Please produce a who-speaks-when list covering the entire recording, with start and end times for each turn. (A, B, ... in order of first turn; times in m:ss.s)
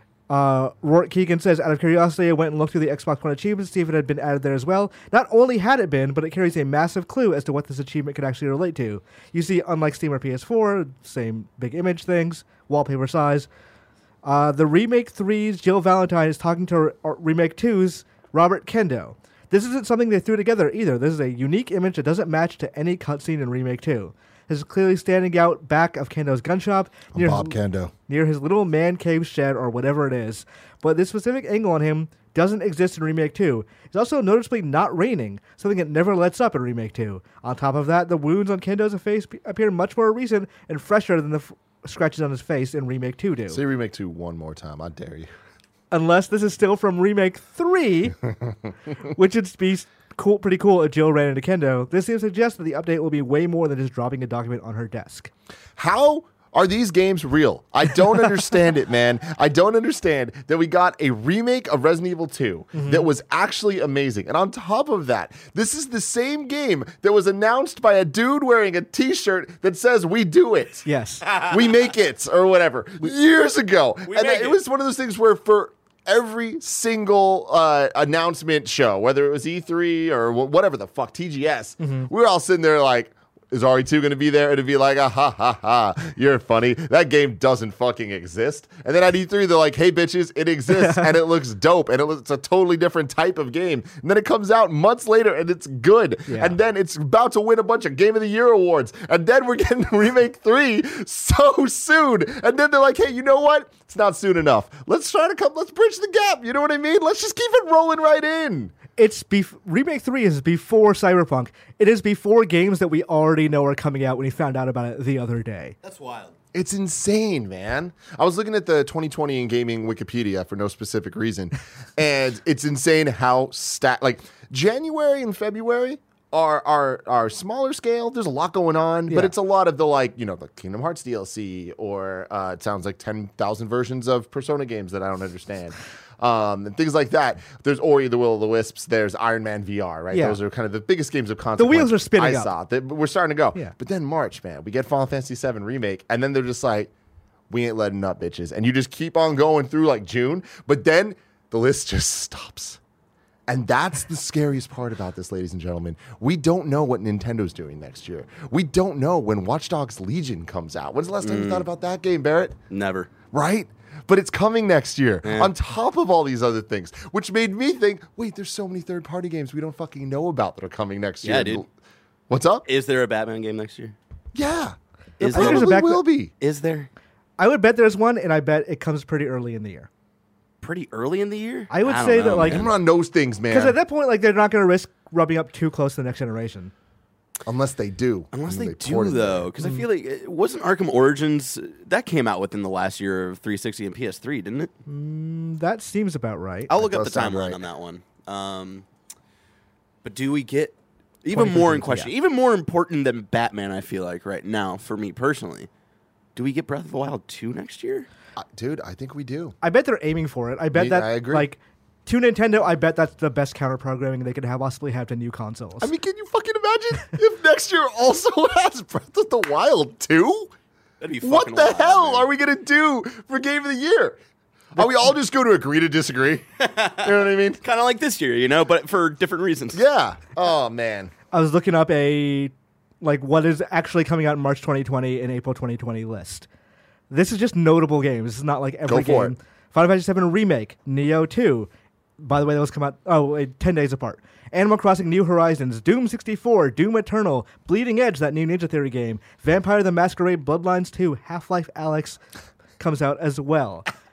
0:00.3-0:13.5 A
0:14.2-0:27.6 A
0:27.1-0:27.9 B
0:28.1-0:43.6 A
0:43.5-0:45.3 B
0:45.9-0:48.2 A
0:49.0-0:55.3 A
0:55.8-1:48.8 B
1:02.7-1:03.1 A
1:10.8-1:11.2 A
1:11.3-1:11.6 C
1:14.1-1:14.6 C
1:21.8-1:22.1 A
1:30.7-1:31.1 A
1:36.3-1:36.6 A
1:49.0-1:55.8 A
1:55.8-1:56.3 C
1:56.5-2:26.9 B
2:20.1-2:20.4 A
2:21.6-2:22.5 A
2:27.5-2:32.8 B
2:33.5-2:42.6 B
2:41.2-2:41.7 C
2:42.7-2:43.1 C
2:43.3-2:51.7 B
2:45.2-2:45.5 C
2:51.2-2:51.6 C
2:52.3-2:52.6 B
2:52.7-2:54.0 C
2:54.4-2:56.3 B
2:55.2-2:55.7 C
2:55.3-2:56.0 A
2:56.4-2:56.9 C
2:57.4-2:59.9 A
3:00.6-3:02.7 C
3:01.7-3:02.6 A
3:02.3-3:03.8 B
3:03.5-3:06.7 A
3:07.4-3:09.5 B
3:08.3-3:14.7 C
3:09.6-3:09.9 A
3:14.9-3:16.7 A
3:16.7-3:18.8 C
3:16.8-3:17.6 B
3:20.0-3:25.7 C
3:21.3-3:22.1 A
3:26.4-3:28.1 C
3:28.4-3:29.6 B
3:29.6-3:35.9 A
3:30.7-3:31.5 B
3:35.8-3:40.5 B
3:41.0-3:42.3 C
3:41.2-3:44.2 B
3:44.8-3:46.5 B
3:46.6-3:49.8 C
3:47.0-3:47.6 B
3:49.7-3:51.1 B
3:51.3-3:56.5 A
3:57.1-4:12.2 A
3:58.9-3:59.3 B
4:12.8-4:13.9 A